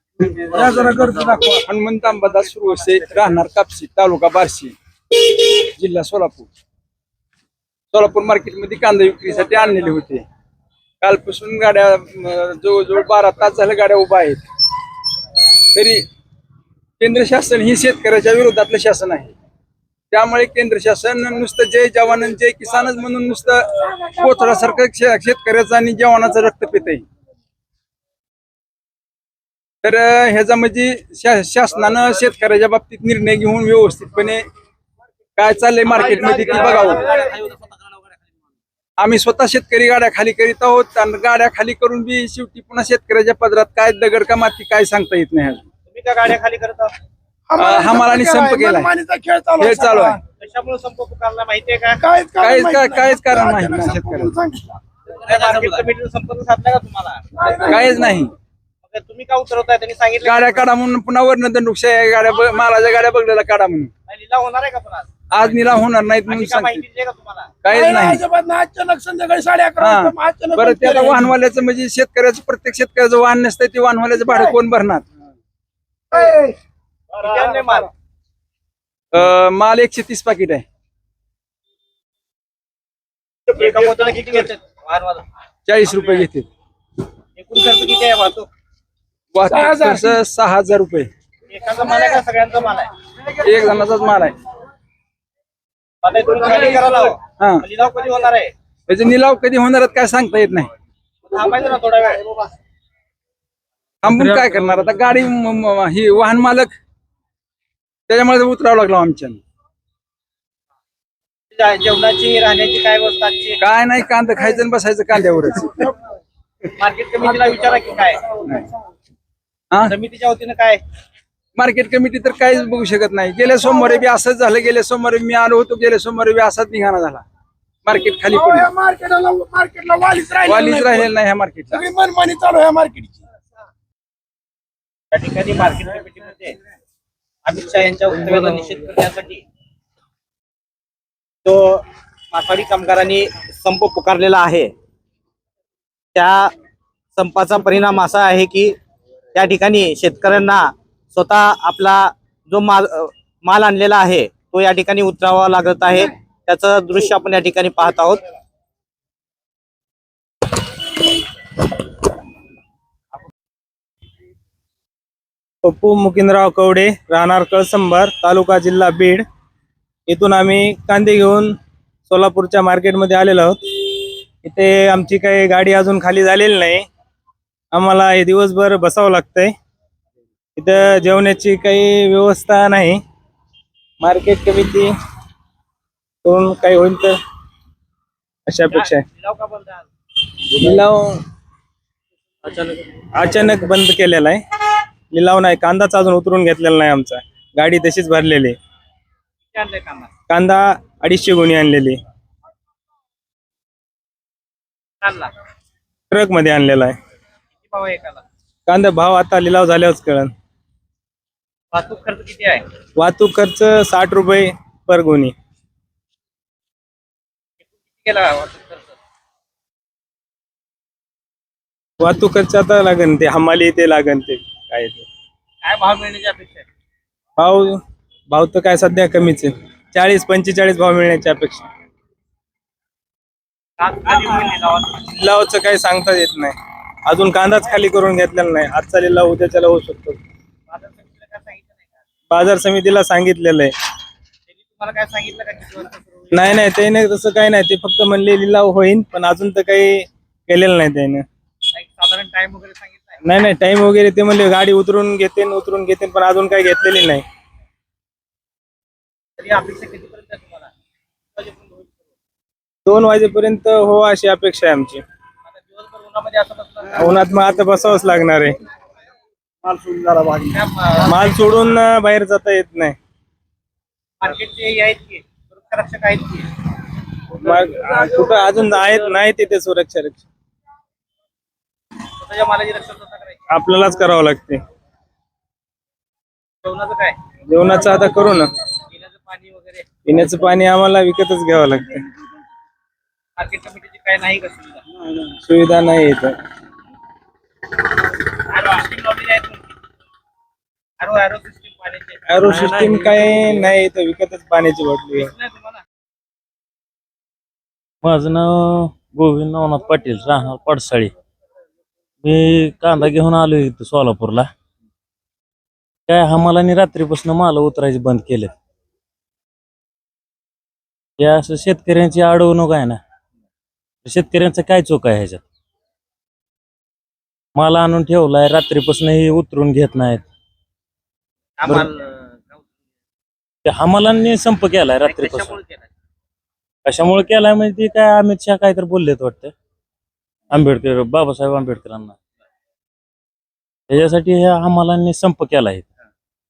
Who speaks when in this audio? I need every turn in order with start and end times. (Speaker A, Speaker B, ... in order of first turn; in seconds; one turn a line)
Speaker A: 0.3-6.5
Speaker A: 7.9-10.2
Speaker A: 11.0-14.4
Speaker A: 15.7-16.0
Speaker A: 17.0-19.3
Speaker A: 20.1-27.1
Speaker A: 29.8-34.4
Speaker A: 35.4-37.1
Speaker B: 37.0-37.4
Speaker A: 39.0-45.6
Speaker B: 45.9-46.9
Speaker C: 47.5-50.2
Speaker A: 47.5-48.9
Speaker A: 49.6-50.2
Speaker B: 50.4-52.0
Speaker C: 52.0-54.8
Speaker A: 52.4-54.4
Speaker B: 55.1-57.8
Speaker C: 57.4-58.2
Speaker A: 57.7-58.3
Speaker B: 58.8-60.6
Speaker A: 60.2-63.9
Speaker B: 64.1-65.1
Speaker A: 65.3-66.8
Speaker B: 66.2-67.5
Speaker A: 67.6-68.2
Speaker C: 67.7-71.3
Speaker A: 69.8-75.1
Speaker C: 76.1-76.5
Speaker B: 77.1-77.9
Speaker A: 79.1-80.6
Speaker B: 83.5-85.2
Speaker A: 85.7-86.5
Speaker B: 87.4-88.5
Speaker A: 89.3-91.1
Speaker C: 89.5-90.2
Speaker B: 91.5-92.9
Speaker A: 93.3-94.4
Speaker B: 96.0-98.5
Speaker A: 97.4-97.6
Speaker A: 98.9-100.7
Speaker B: 101.2-102.3
Speaker A: 104.0-106.8
Speaker D: 104.1-105.0
Speaker A: 108.1-109.4
Speaker B: 111.5-113.6
Speaker A: 113.6-115.9
Speaker B: 116.8-118.3
Speaker A: 118.4-118.7
Speaker B: 119.9-120.8
Speaker A: 121.6-127.2
Speaker A: 127.8-128.7
Speaker C: 128.3-131.1
Speaker A: 130.4-131.8
Speaker C: 131.7-133.2
Speaker B: 135.1-136.6
Speaker B: 137.4-139.4
Speaker B: 141.4-144.7
Speaker B: 146.2-146.5
Speaker B: 147.2-148.8
Speaker B: 149.3-158.2
Speaker E: 165.6-169.2
Speaker E: 170.1-171.5
Speaker E: 172.1-176.9
Speaker E: 177.7-179.5
Speaker E: 180.6-183.0
Speaker E: 184.0-184.9
Speaker E: 186.2-187.2
Speaker E: 188.5-189.0
Speaker B: 188.7-189.8
Speaker E: 190.5-191.2
Speaker B: 192.4-192.8
Speaker E: 193.1-194.4
Speaker E: 195.1-198.6
Speaker B: 199.5-200.1
Speaker E: 200.3-202.0
Speaker B: 205.0-205.3
Speaker E: 206.1-207.0
Speaker B: 207.6-208.2
Speaker E: 208.7-210.3
Speaker B: 211.7-212.7
Speaker E: 213.0-215.3
Speaker B: 217.6-219.0
Speaker E: 222.0-225.1
Speaker B: 225.6-226.7
Speaker E: 227.4-231.7
Speaker B: 233.8-235.0
Speaker E: 235.0-236.5
Speaker E: 237.1-240.2
Speaker B: 240.7-242.0
Speaker E: 242.3-243.7
Speaker B: 244.5-246.7
Speaker E: 246.3-251.2
Speaker B: 251.7-253.2
Speaker E: 253.2-257.2
Speaker B: 259.4-260.7
Speaker B: 261.4-262.0
Speaker E: 262.9-265.0
Speaker B: 265.5-267.1
Speaker E: 266.9-268.6
Speaker B: 270.1-271.8
Speaker E: 271.0-272.9
Speaker B: 274.2-276.5
Speaker E: 277.3-280.2
Speaker B: 282.1-283.4
Speaker E: 283.5-284.6
Speaker B: 286.6-287.2
Speaker E: 287.5-288.5
Speaker B: 288.9-289.9
Speaker E: 290.1-292.1
Speaker B: 293.4-294.8
Speaker E: 295.4-296.4
Speaker B: 298.4-299.6
Speaker B: 301.0-302.2
Speaker E: 302.3-305.3
Speaker D: 302.4-303.6
Speaker B: 305.1-305.8
Speaker D: 308.0-311.1
Speaker D: 312.2-314.5
Speaker D: 316.1-318.5
Speaker D: 321.2-323.0
Speaker D: 324.1-325.4
Speaker D: 327.6-330.2
Speaker B: 331.6-332.6
Speaker D: 333.6-335.6
Speaker B: 335.0-335.9
Speaker D: 336.9-339.5
Speaker D: 340.5-342.1
Speaker D: 343.9-345.9